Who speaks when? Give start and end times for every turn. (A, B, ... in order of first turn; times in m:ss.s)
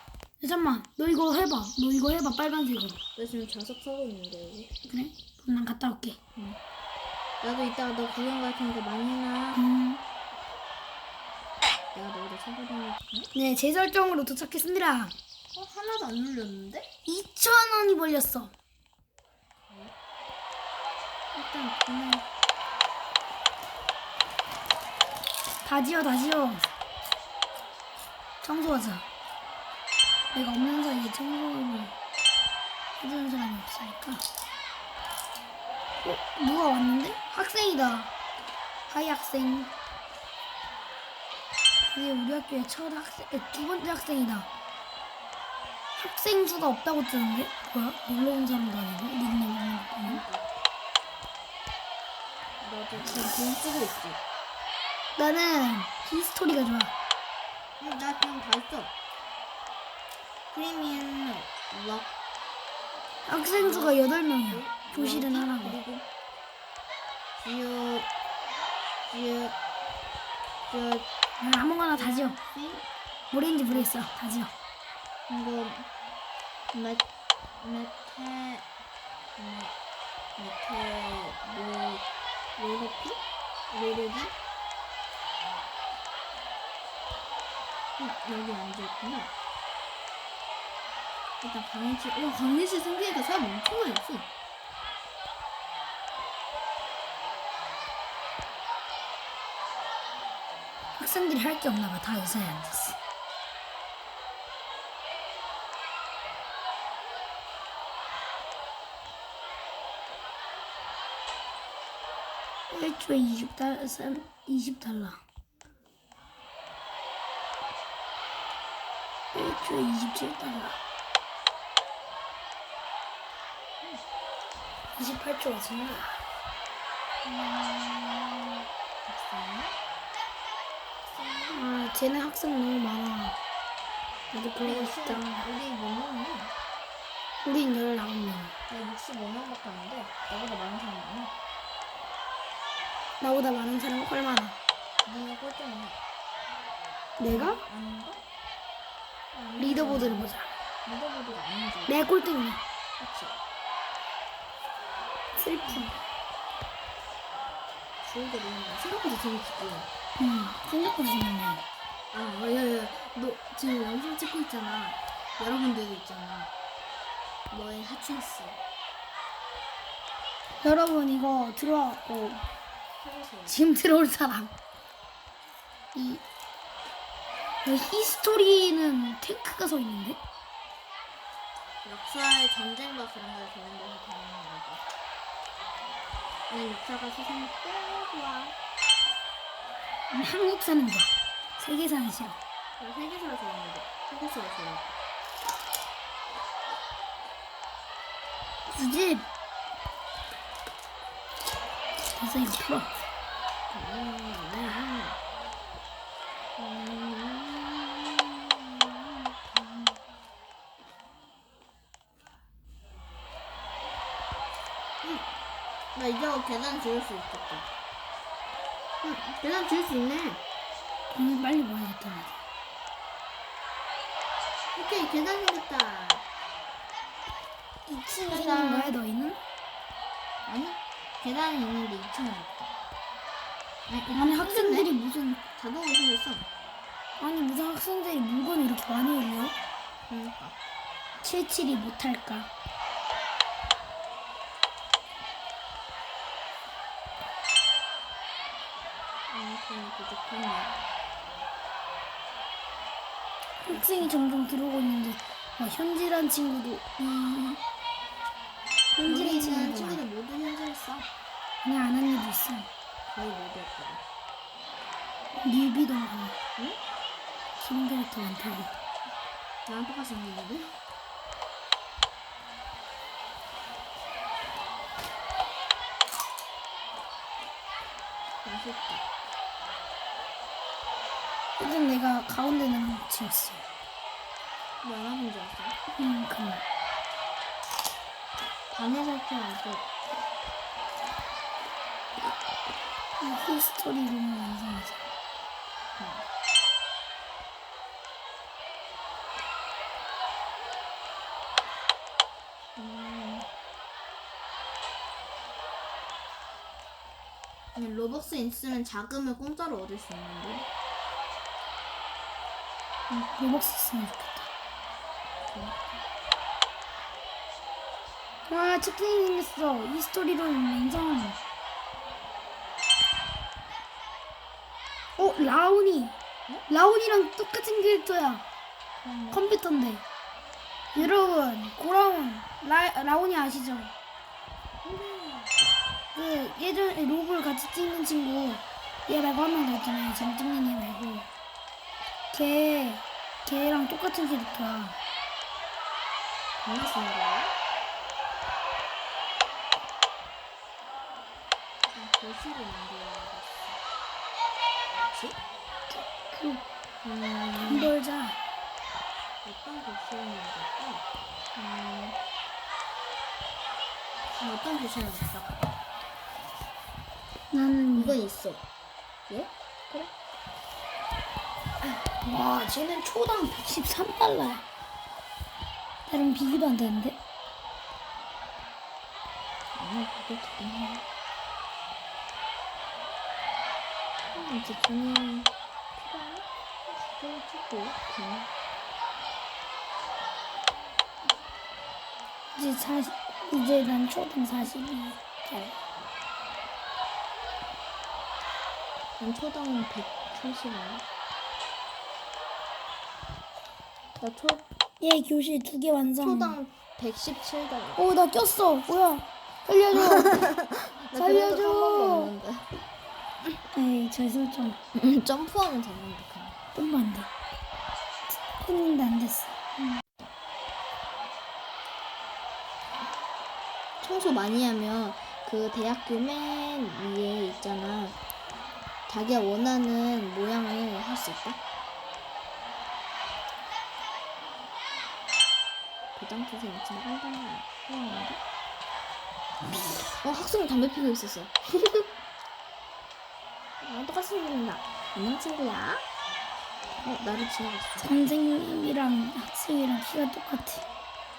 0:00.4-0:03.0 A
0:03.2-0:04.7 B
0:04.9-0:06.2 A
0:07.4-0:09.6 B
0:09.5-0:10.0 A
0:11.9-0:13.3 B
0:13.3-0:15.1 A
0:15.5-0:16.9 B
0:17.0-0:18.5 A
0:19.7-0:19.9 B
0:21.3-0:22.3 B
0:25.6-0:26.6 A
0:28.4-0:29.0 A
0:30.3-0:31.9 A
0:33.0-0:34.2 A
0:36.0-0:38.1 A
0:38.9-0:39.7 A
0:41.9-0:44.5 A
0:45.9-0:50.2 A
0:50.0-0:50.5 B
0:52.6-0:54.2 B
0:55.2-0:56.9 A
0:57.8-0:58.9 B
1:00.5-1:02.1 B
1:03.2-1:05.8 A
1:03.6-1:06.0 B
1:07.4-1:08.1 B
1:09.1-1:09.6 B
1:10.7-1:11.1 B
1:11.4-1:12.4 A
1:11.9-1:12.8 B
1:13.3-1:14.5 A
1:15.3-1:15.9 B
1:16.7-1:17.0 B
1:17.6-1:18.7 B
1:19.4-1:19.7 B
1:20.4-1:22.0 B
1:22.6-1:24.3 B
1:28.0-1:29.3 B
1:31.4-1:34.3 B
1:41.0-1:43.0 A
1:52.7-1:55.2 A
1:59.3-2:00.8 A
2:04.9-2:06.2 A
2:07.2-2:09.7 B
2:11.0-2:11.7 B
2:11.5-2:13.4 A
2:14.3-2:15.4 A
2:14.6-2:16.5 B
2:17.4-2:18.5 A
2:18.7-2:21.3 B
2:23.2-2:24.6 A
2:25.0-2:26.0 B
2:27.2-2:27.6 A
2:27.2-2:28.2 B
2:29.3-2:30.2 B
2:29.6-2:30.5 A
2:30.8-2:32.0 B
2:31.9-2:32.6 A
2:33.0-2:33.4 B
2:35.3-2:36.0 A
2:38.0-2:39.9 B
2:40.2-2:41.6 A
2:42.1-2:46.5 B
2:47.5-2:48.6 B
2:50.6-2:52.4 A
2:52.9-2:53.6 B
2:53.5-2:54.5 A
2:55.9-2:56.2 A
2:57.6-3:00.2 A
3:01.8-3:04.8 B
3:06.5-3:08.6 B
3:10.1-3:12.4 A
3:12.8-3:14.9 B
3:18.7-3:19.2 A
3:22.1-3:22.9 A
3:23.7-3:25.2 B
3:26.6-3:30.0 B
3:35.9-3:37.7 B
3:39.0-3:40.4 B
3:41.1-3:42.4 A
3:44.7-3:46.2 B
3:47.9-3:49.4 A
3:48.3-3:49.0 B
3:50.4-3:52.7 B
3:53.9-3:54.9 B
3:54.1-3:55.4 A
3:55.6-3:56.5 B
3:57.2-3:59.5 A
4:00.1-4:00.6 B
4:01.2-4:02.5 A
4:09.3-4:10.8 B
4:13.6-4:17.6 A
4:13.7-4:14.1 B
4:18.9-4:20.0 A
4:19.0-4:21.1 B
4:21.6-4:22.7 A
4:23.1-4:24.0 B
4:25.4-4:26.4 A
4:27.6-4:28.7 A
4:29.6-4:30.7 B
4:38.4-4:39.0 B
4:41.6-4:43.7 A
4:44.8-4:45.8 B
4:45.9-4:46.6 A
4:48.7-4:49.8 B
4:53.2-4:55.1 A
4:56.0-4:56.2 B
5:02.8-5:03.5 B
5:07.7-5:10.7 B
5:13.1-5:14.5 A
5:15.4-5:15.8 B
5:18.5-5:21.4 A
5:25.2-5:26.1 A
5:26.7-5:28.4 A
5:29.0-5:29.4 B
5:29.3-5:30.0 A
5:30.9-5:33.9 A
5:34.8-5:35.5 B
5:36.1-5:41.3 A
5:42.3-5:45.0 A
5:46.6-5:47.5 B
5:51.9-5:53.8 B
5:55.0-5:55.4 B
5:55.9-5:56.6 A
5:57.0-5:57.9 B
5:57.6-5:58.4 A
5:59.4-6:02.2 B
6:04.4-6:05.8 B
6:07.5-6:08.2 A
6:07.9-6:08.6 B
6:09.3-6:10.1 B
6:12.1-6:14.6 A
6:16.1-6:17.2 A
6:19.7-6:21.0 B
6:24.3-6:28.5 B
6:32.5-6:35.7 A
6:39.2-6:41.0 B
6:44.2-6:44.6 B
6:45.0-6:46.6 A
6:46.2-6:48.0 B
6:48.0-6:50.4 A
6:49.9-6:52.7 B
6:51.1-6:52.3 A
6:53.7-6:54.8 A
6:54.9-6:56.6 B
6:56.7-6:57.3 A
6:58.4-6:59.6 A
7:04.0-7:08.2 B
7:09.1-7:11.6 B
7:16.1-7:18.4 B
7:19.8-7:20.1 A
7:20.2-7:22.1 B
7:23.8-7:26.0 B
7:26.9-7:28.3 B
7:28.0-7:30.9 A